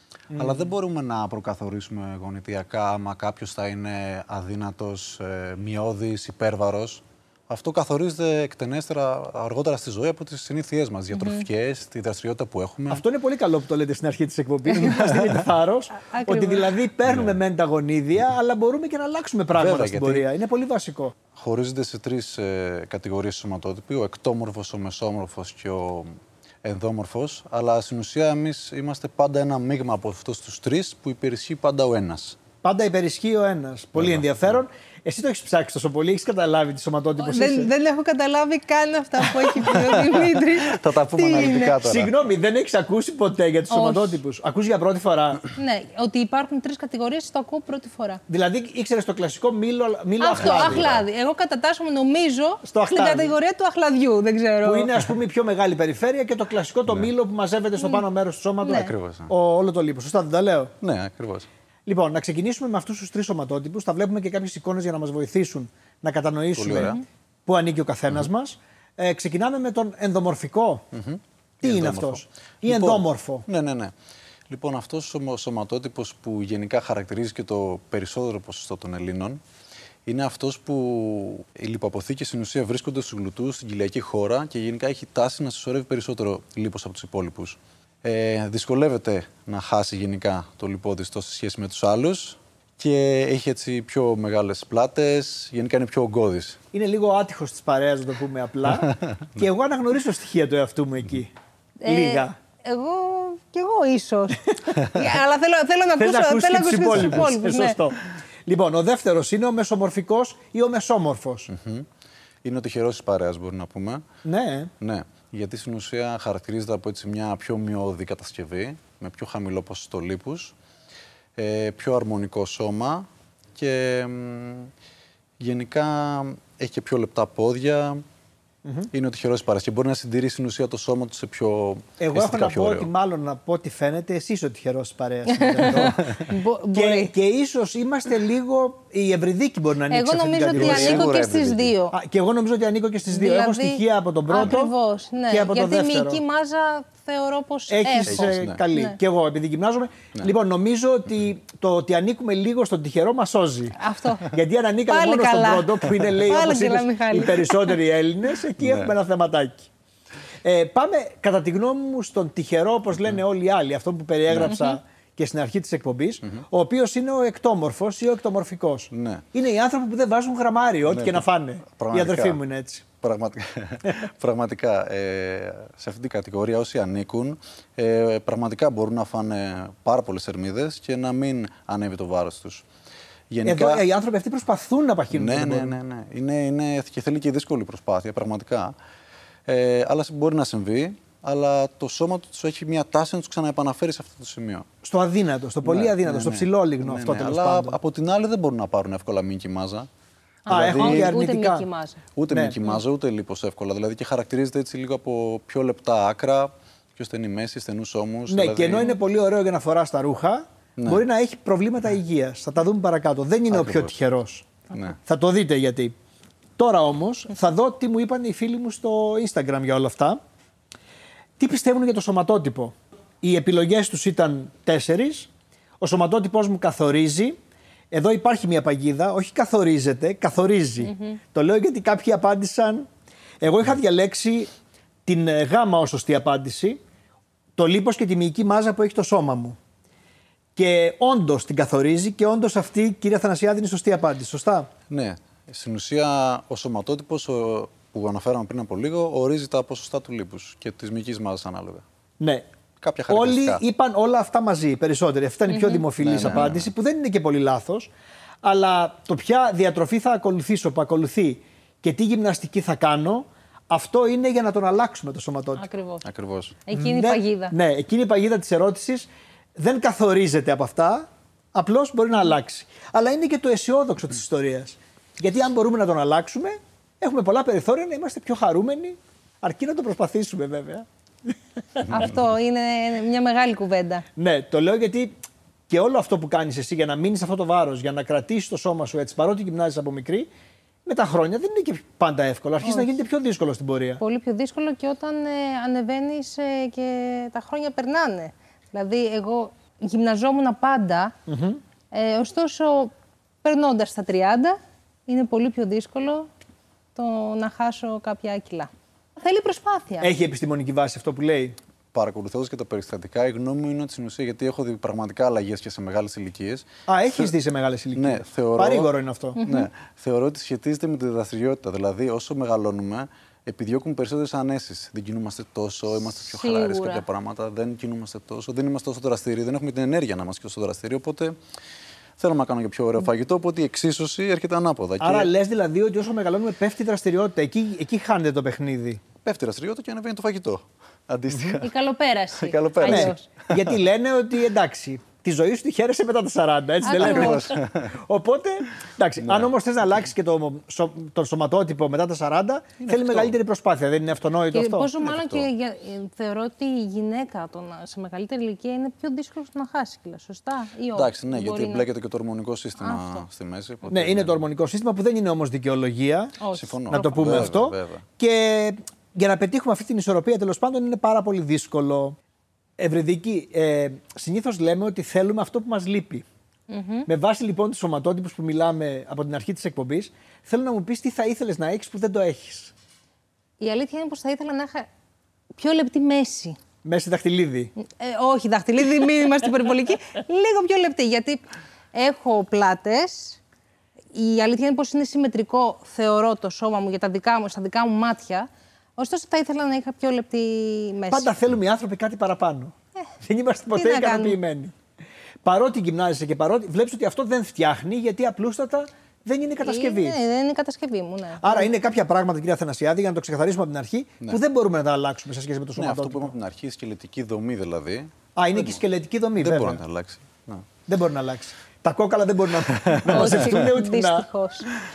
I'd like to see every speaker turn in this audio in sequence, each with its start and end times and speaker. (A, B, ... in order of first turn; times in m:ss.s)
0:00.3-0:00.7 A
0:00.4-0:13.0 B
0:11.2-0:11.4 C
0:12.9-0:21.1 A
0:16.0-0:16.8 C
0:17.1-0:17.4 B
0:19.5-0:20.3 B
0:21.4-0:26.1 B
0:26.6-0:32.4 B
0:32.6-0:37.7 A
0:34.0-0:34.5 B
0:37.2-0:41.8 C
0:39.7-0:42.1 B
0:41.8-0:45.4 A
0:43.7-0:44.2 C
0:45.6-0:48.2 C
0:48.3-0:50.9 A
0:50.2-0:55.0 C
0:50.4-0:51.1 B
0:52.6-0:53.4 A
0:54.6-1:00.7 A
0:58.6-0:58.9 C
0:58.6-0:59.3 B
1:00.8-1:01.5 B
1:01.9-1:10.9 A
1:06.6-1:07.0 B
1:10.9-1:13.9 B
1:11.6-1:13.5 A
1:14.5-1:19.4 B
1:20.1-1:36.6 B
1:36.7-1:41.3 A
1:41.8-1:47.8 C
1:41.8-1:42.4 A
1:46.0-1:51.5 A
1:51.5-1:51.9 B
1:52.4-1:54.0 B
1:54.2-1:54.7 A
1:54.8-2:00.6 B
2:01.4-2:04.7 B
2:05.4-2:08.0 B
2:08.6-2:08.9 A
2:08.9-2:12.9 B
2:12.0-2:21.1 A
2:15.4-2:17.1 C
2:19.9-2:22.0 C
2:20.5-2:21.8 B
2:21.9-2:24.7 A
2:23.1-2:29.0 C
2:25.3-2:26.2 A
2:27.7-2:33.8 A
2:28.1-2:28.6 B
2:33.8-2:34.3 C
2:34.3-2:39.7 A
2:34.9-2:37.8 C
2:38.6-2:38.9 B
2:40.4-2:52.8 A
2:44.3-2:44.6 B
2:44.5-2:44.8 C
2:48.9-2:49.3 B
2:50.9-2:52.4 B
2:53.0-3:02.7 B
3:03.3-3:03.8 B
3:03.4-3:05.8 A
3:05.1-3:08.7 B
3:09.5-3:14.7 B
3:14.8-3:17.8 A
3:15.6-3:19.9 B
3:20.5-3:22.0 C
3:20.5-3:21.7 A
3:20.5-3:21.2 B
3:22.2-3:28.9 B
3:22.3-3:22.6 A
3:28.3-3:34.5 A
3:30.8-3:31.0 B
3:33.5-3:33.9 B
3:35.0-3:35.9 A
3:36.6-3:40.2 A
3:41.4-3:45.3 A
3:45.8-3:47.4 A
3:47.9-3:52.9 A
3:50.8-3:51.2 C
3:53.4-3:54.5 A
3:55.1-3:56.8 A
3:57.6-3:59.6 A
4:00.6-4:04.7 A
4:04.9-4:11.8 B
4:12.2-4:12.5 A
4:12.8-4:13.6 B
4:13.1-4:17.9 A
4:15.5-4:15.8 C
4:16.0-4:16.7 B
4:18.4-4:25.7 A
4:25.6-4:26.1 C
4:26.0-4:26.6 B
4:26.7-4:27.5 C
4:26.7-4:40.9 A
4:41.9-4:44.0 C
4:44.2-4:45.2 A
4:45.7-4:50.3 A
4:50.9-4:54.0 A
4:52.6-4:53.0 C
4:54.0-5:01.2 C
5:01.3-5:01.6 A
5:01.9-5:02.9 C
5:03.4-5:06.3 C
5:07.0-5:10.1 C
5:10.0-5:11.6 A
5:11.9-5:17.3 B
5:16.9-5:19.4 A
5:18.0-5:31.4 B
5:19.4-5:19.7 C
5:26.2-5:27.0 C
5:32.2-5:35.3 B
5:35.0-5:39.0 A
5:39.2-5:41.7 B
5:41.6-5:43.2 C
5:42.4-5:43.7 B
5:42.8-5:54.9 A
5:46.8-5:47.6 C
5:46.9-5:47.9 B
5:49.2-5:49.5 B
5:52.8-5:53.4 B
5:54.5-6:01.9 C
5:55.0-5:55.5 B
6:00.9-6:04.4 B
6:02.8-6:03.2 C
6:03.9-6:06.4 A
6:06.4-6:07.5 C
6:06.5-6:08.0 B
6:06.9-6:12.2 A
6:12.8-6:16.2 A
6:16.7-6:17.1 C
6:17.1-6:22.7 A
6:23.6-6:24.9 C
6:25.6-6:26.6 C
6:26.8-6:27.7 A
6:27.8-6:31.4 C
6:31.9-6:33.4 C
6:34.1-6:41.3 C
6:41.1-6:44.7 A
6:43.7-6:44.4 C
6:45.4-6:50.2 A
6:49.6-6:51.7 C
6:51.4-6:56.4 A
6:55.8-6:58.8 B
6:58.4-6:59.8 A
6:59.4-7:00.7 B
7:00.9-7:04.3 A
7:02.8-7:03.4 B
7:03.1-7:04.7 C